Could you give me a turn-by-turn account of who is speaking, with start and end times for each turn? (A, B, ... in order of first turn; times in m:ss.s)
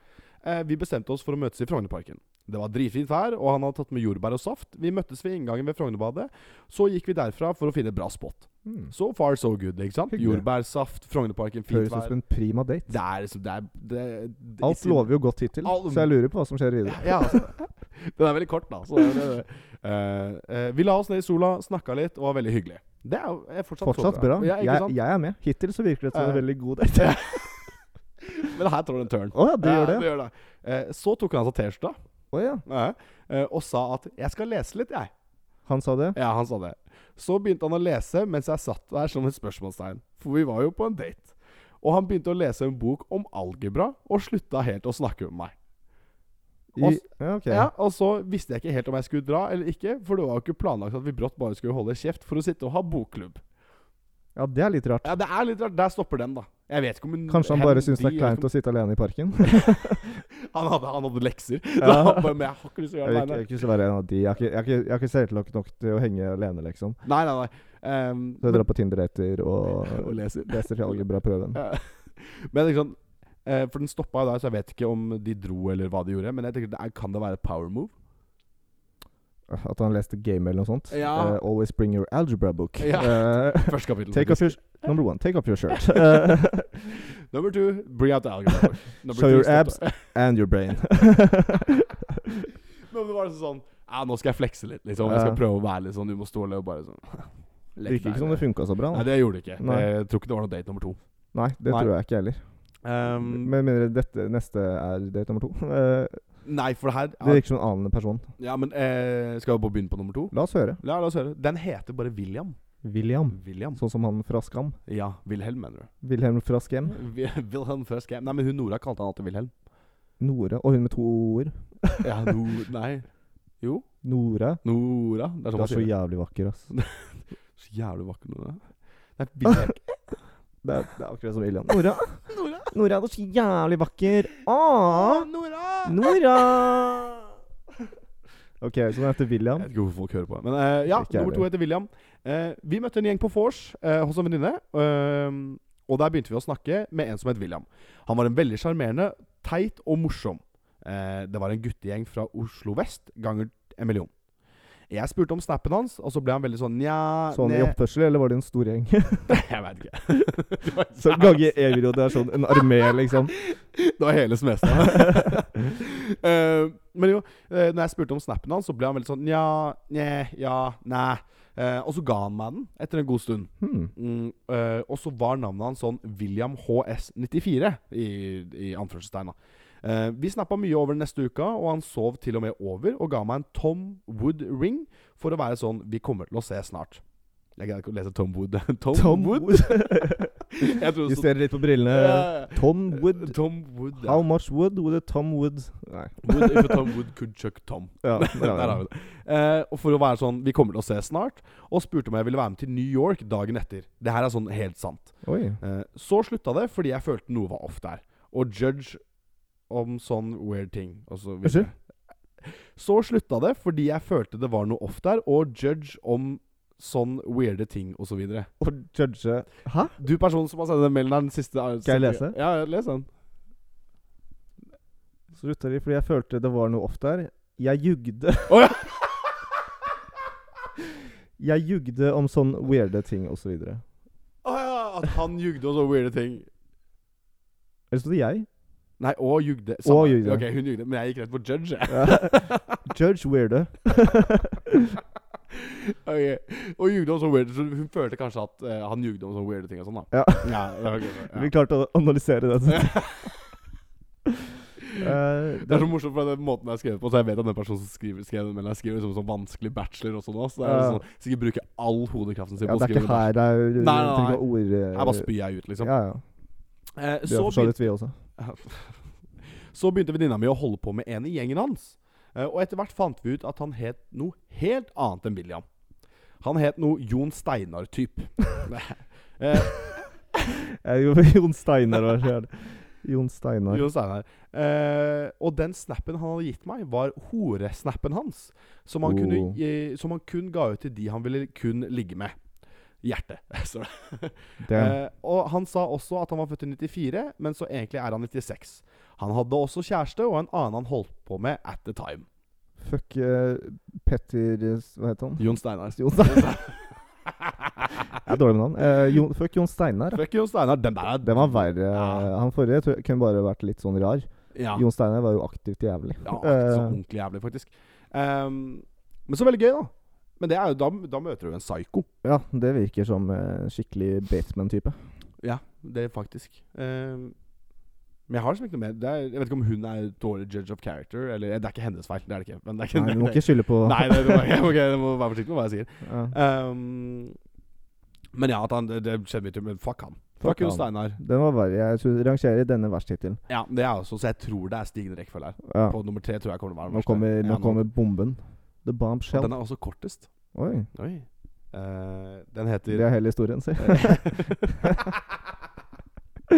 0:00.4-0:12.1 A
0:08.6-0:08.9 B
0:10.1-0:10.4 B
0:11.7-0:12.9 B
0:12.9-0:15.1 A
0:14.6-0:17.4 B
0:15.6-0:16.1 A
0:16.8-0:25.0 A
0:23.8-0:27.5 B
0:26.1-0:26.4 A
0:27.0-0:32.0 A
0:29.3-0:30.1 B
0:32.3-0:32.6 B
0:32.6-0:35.1 A
0:35.7-0:36.2 B
0:36.1-0:45.5 A
0:46.7-0:47.7 B
0:46.8-0:53.4 A
0:54.4-0:55.1 B
0:55.0-0:58.5 A
0:57.3-1:00.2 B
0:59.4-0:59.7 A
1:00.3-1:03.5 A
1:01.8-1:02.3 B
1:03.0-1:07.0 B
1:07.0-1:08.7 A
1:08.4-1:11.6 B
1:09.7-1:17.9 A
1:19.5-1:26.7 B
1:20.9-1:21.4 A
1:22.8-1:24.9 A
1:25.7-1:26.0 A
1:27.2-1:30.2 A
1:29.1-1:31.9 B
1:32.8-1:41.0 A
1:35.0-1:35.4 B
1:37.8-1:39.9 B
1:41.3-1:42.5 B
1:42.8-1:43.5 A
1:43.1-1:46.4 B
1:46.4-1:47.4 A
1:47.2-1:48.3 B
1:48.4-1:52.6 A
1:50.3-1:50.8 B
1:52.8-1:54.8 B
1:53.3-1:53.8 A
1:54.9-1:55.9 A
1:56.0-1:57.0 B
1:56.9-1:59.5 A
2:00.2-2:02.0 B
2:02.0-2:03.1 A
2:03.6-2:03.9 A
2:04.0-2:04.6 B
2:04.6-2:05.9 A
2:05.5-2:06.7 B
2:06.7-2:10.0 A
2:10.6-2:15.3 B
2:12.3-2:12.7 A
2:14.9-2:16.8 A
2:15.8-2:17.1 B
2:18.6-2:19.7 B
2:19.6-2:34.1 A
2:20.9-2:21.5 B
2:34.9-2:37.8 A
2:37.3-2:39.4 B
2:39.3-2:42.0 A
2:40.9-2:43.3 B
2:43.3-3:07.0 A
2:45.0-2:45.3 B
2:53.6-2:53.9 B
3:07.6-3:14.2 A
3:08.9-3:13.4 B
3:13.9-3:16.9 B
3:16.2-3:29.0 A
3:18.0-3:18.8 B
3:25.2-3:25.6 B
3:29.7-3:31.8 A
3:31.4-3:31.7 B
3:32.4-3:38.5 A
3:38.6-3:39.9 B
3:40.0-3:43.1 A
3:41.8-3:42.4 B
3:45.3-3:48.6 B
3:48.5-3:49.4 A
3:51.4-3:53.8 B
3:54.4-3:56.5 A
3:57.9-3:58.5 B
3:59.0-4:02.6 A
3:59.8-4:00.5 B
4:01.9-4:04.8 B
4:05.5-4:11.5 A
4:10.1-4:13.1 B
4:12.7-4:13.4 A
4:15.0-4:15.9 B
4:15.6-4:25.9 A
4:20.6-4:21.0 B
4:22.6-4:26.2 B
4:27.0-4:27.8 A
4:27.3-4:28.2 B
4:28.4-4:35.6 A
4:36.4-4:40.1 A
4:40.8-4:43.8 B
4:43.7-4:52.4 A
4:49.0-4:49.6 B
4:53.0-5:02.2 A
4:54.6-4:55.0 B
5:02.8-5:06.6 B
5:05.4-5:08.0 A
5:08.2-5:10.2 B
5:10.1-5:12.3 A
5:11.2-5:17.0 B
5:14.5-5:14.8 A
5:16.2-5:22.1 A
5:22.2-5:25.0 B
5:25.4-5:27.3 A
5:28.3-5:37.4 A
5:32.9-5:34.5 B
5:36.0-5:36.3 B
5:38.3-5:41.2 A
5:40.4-5:43.4 B
5:43.5-5:47.8 A
5:45.6-5:46.0 B
5:46.9-5:49.5 B
5:49.3-5:50.3 A
5:50.5-5:50.9 B
5:50.9-5:53.1 A
5:52.9-5:54.6 B
5:53.8-5:55.2 A